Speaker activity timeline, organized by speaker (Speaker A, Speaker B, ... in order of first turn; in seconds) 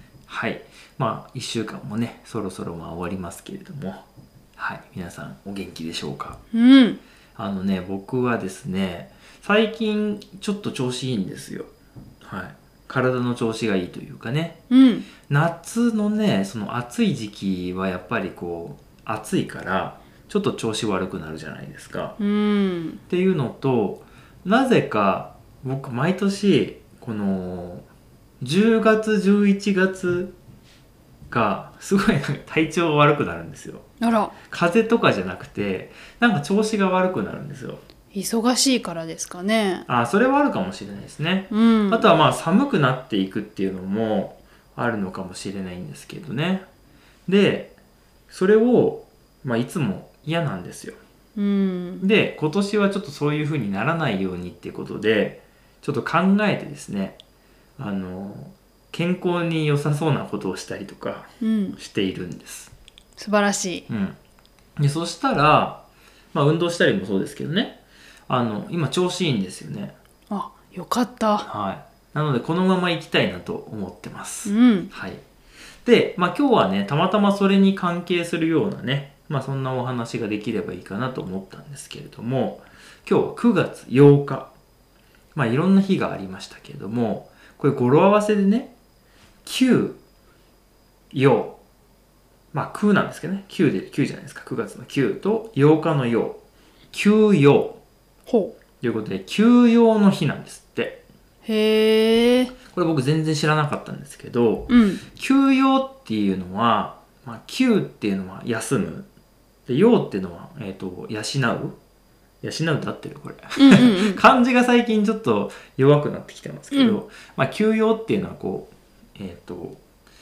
Speaker A: 0.3-4.0, 4.6-6.4, 7.3-11.7, 12.2-14.6, 15.3-22.2, 23.1-27.9, 28.4-30.3, 31.3-33.9, 34.5-37.8, 39.9-46.7, 47.3-47.8, 48.3-51.0, 52.0-57.2, 57.8-62.7, 63.9-64.2, 64.8-69.9, 71.4-75.2, 75.8-84.5, 85.3-88.7, 89.4-90.0, 91.1-91.6, 92.5-97.8, 98.8-101.0, 102.7-109.1, 109.7-111.8, 112.4-119.8
Speaker B: 6.5-7.0, 14.7-15.1, 22.2-23.0, 34.0-34.3, 38.1-39.9, 41.5-42.1, 51.4-52.0, 61.4-61.8, 63.2-63.9, 70.3-71.5, 74.5-74.9, 98.3-98.5, 101.4-102.5, 104.7-105.0, 113.6-114.2, 116.7-117.0